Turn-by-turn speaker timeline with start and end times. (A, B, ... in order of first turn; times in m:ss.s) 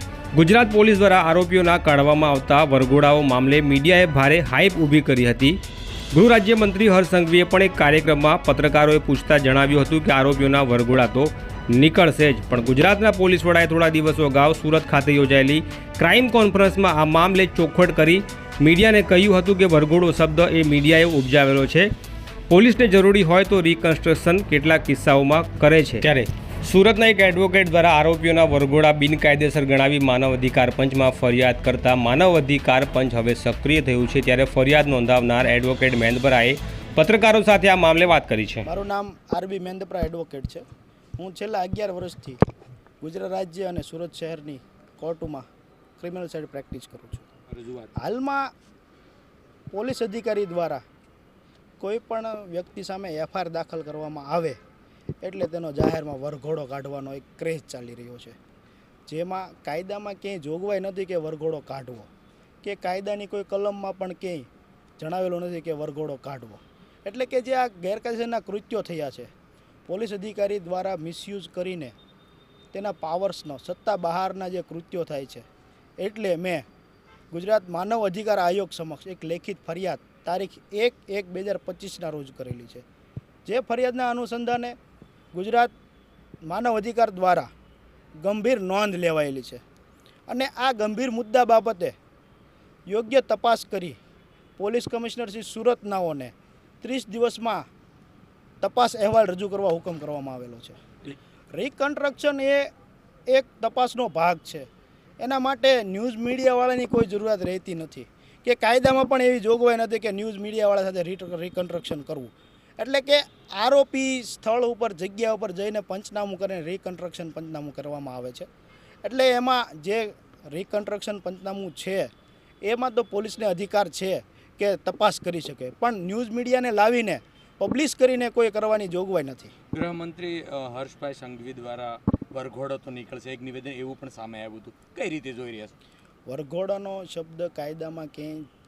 0:00.3-0:05.6 A
0:06.1-0:21.9 A
0:22.5-0:38.7 A
0:38.6-0:40.6 B
0:41.2-0:42.4 B
0:43.0-0:45.4 B
0:46.0-0:47.2 B
0:47.5-0:47.9 C
0:48.0-0:48.5 B
0:49.7-0:50.8 B
0:51.8-0:54.6 B
0:55.2-0:58.4 B
0:59.1-1:02.1 B
1:02.6-1:04.5 B
1:05.0-1:09.3 B
1:09.9-1:11.9 B
1:12.7-1:15.4 B
1:16.0-1:16.6 B
1:17.3-1:22.8 B
1:23.4-1:24.7 B
1:25.3-1:25.7 B
1:26.4-1:27.5 B
1:28.2-1:29.6 B
1:30.3-1:31.9 B
1:32.9-1:34.0 B
1:34.6-1:37.6 B
1:38.6-1:40.8 B
1:41.5-1:42.7 B
1:43.3-1:44.6 B
1:45.2-1:58.5 B
1:59.0-2:02.1 B
2:02.6-2:09.5 B
2:09.7-2:15.7 C
2:16.2-2:18.5 B